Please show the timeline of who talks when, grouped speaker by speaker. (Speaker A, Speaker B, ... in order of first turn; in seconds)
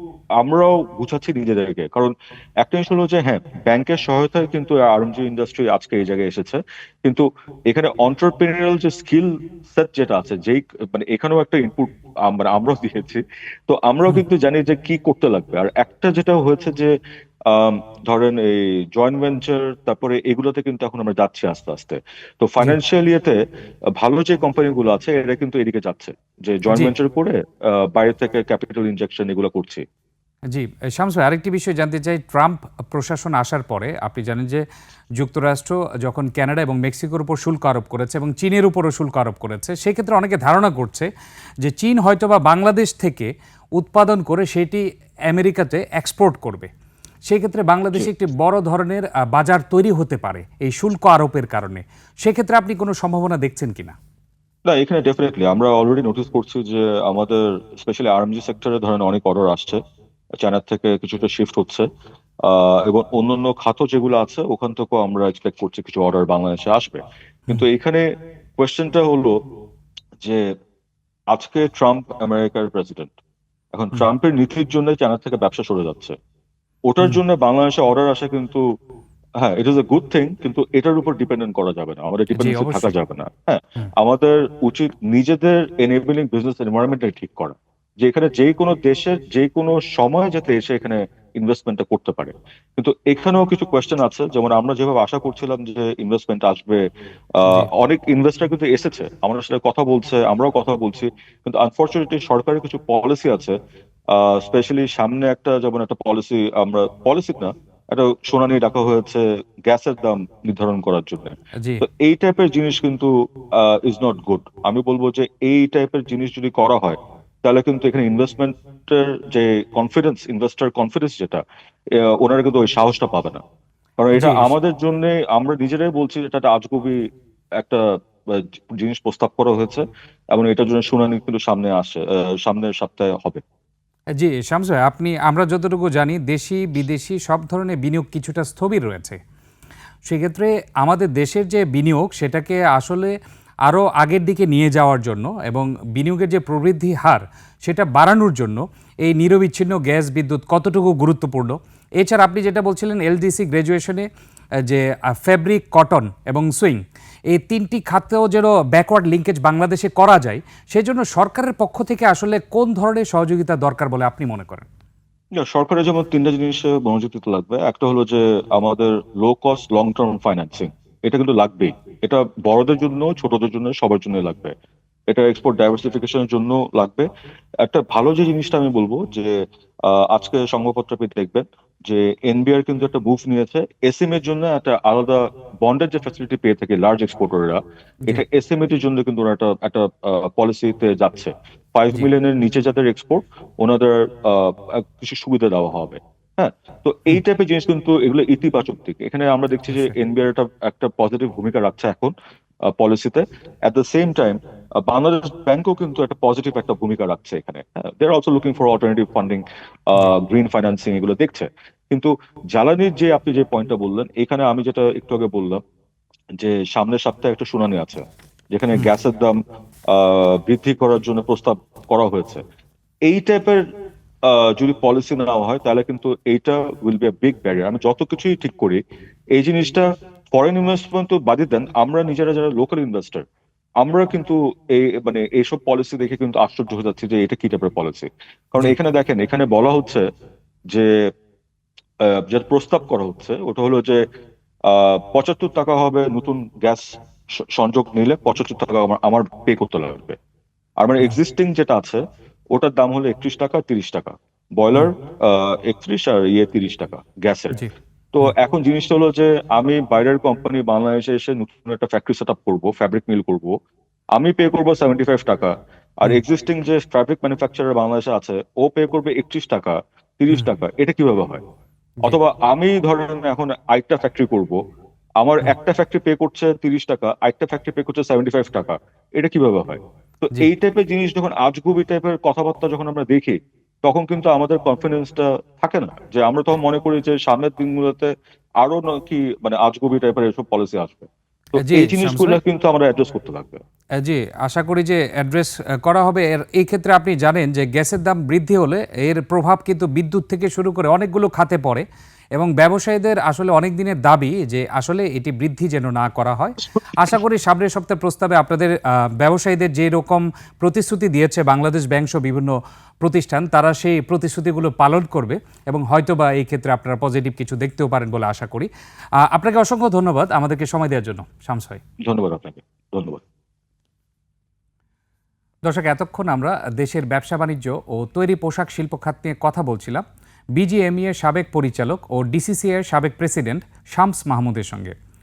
Speaker A: 0.4-16.9, 17.5-23.4, 23.9-29.8, 54.6-59.8, 60.4-61.9, 62.4-69.4, 71.3-73.1, 73.7-76.2, 76.9-78.6, 79.4-96.8, 97.4-103.6, 104.1-121.4, 121.9-123.4, 124.0-127.0, 127.6-133.4, 165.4-174.5, 175.1-177.1, 177.6-179.3, 179.8-202.1, 202.7-215.6, 216.4-219.4, 219.9-222.4, 223.1-223.6, 224.2-228.8, 229.3-233.2, 233.8-240.1, 240.7-241.1, 242.0-244.0, 244.7-246.9, 247.6-250.2, 250.8-257.6, 258.1-263.6, 264.1-271.4, 272.0-274.6, 275.2-293.6, 322.1-323.2
Speaker B: 30.5-34.6, 35.2-41.1, 41.6-46.7, 47.3-53.9, 82.3-82.9, 111.6-111.8, 124.2-124.5, 134.2-139.2, 140.1-143.1, 143.7-154.1, 154.6-164.7, 199.7-199.9, 291.6-292.4, 294.0-318.7, 319.2-321.8, 325.6-330.0, 330.6-334.9